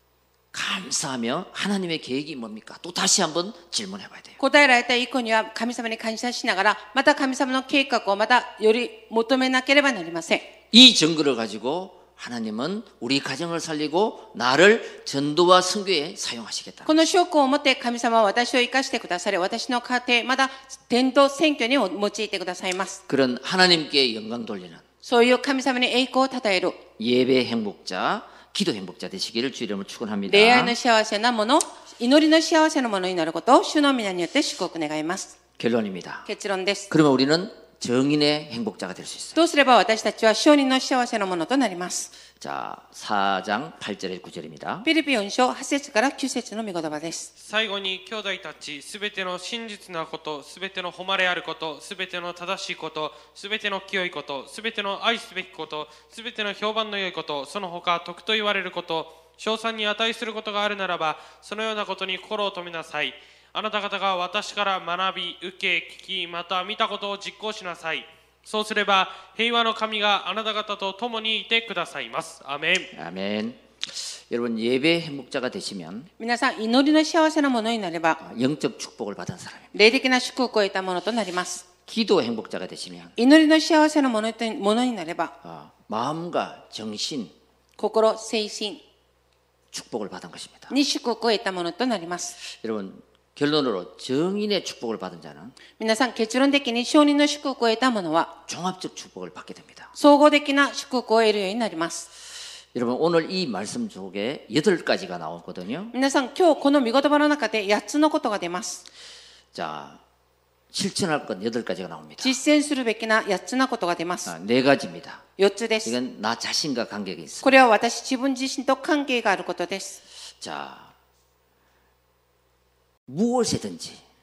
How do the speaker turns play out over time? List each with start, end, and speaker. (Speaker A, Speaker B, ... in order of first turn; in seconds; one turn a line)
Speaker A: 0.5-4.4
Speaker B: 4.4-10.5
Speaker A: 10.7-16.9
Speaker B: 16.9-23.0
Speaker A: 23.1-24.8
Speaker B: 25.0-26.8
Speaker A: 27.0-30.8
Speaker B: 30.3-35.4
Speaker A: 35.6-36.3
Speaker B: 36.3-36.9
Speaker A: 36.9-39.4
Speaker B: 39.4-42.1
Speaker A: 42.4-44.9
Speaker B: 44.9-47.3
Speaker C: 47.4-72.9
Speaker A: 72.9-76.1
Speaker B: 76.2-78.2
Speaker A: 78.2-79.7
Speaker B: 79.7-81.7
Speaker A: 81.9-83.2
Speaker B: 83.2-85.3
Speaker A: 85.4-87.3
Speaker B: 87.8-88.8
Speaker A: 89.7-90.7
Speaker B: 90.7-92.4
Speaker A: 92.4-95.5
Speaker B: 95.8-98.3
Speaker A: 98.5-99.9
Speaker B: 100.0-102.1
Speaker A: 102.7-105.9
Speaker B: 105.9-108.8
Speaker A: 109.5-110.0
Speaker A: 110.7-112.4
Speaker B: 112.2-114.3
Speaker A: 114.3-115.2
Speaker B: 115.4-116.0
Speaker A: 115.8-117.5
Speaker B: 117.4-120.0
Speaker A: 120.4-120.9
Speaker A: 123.1-124.0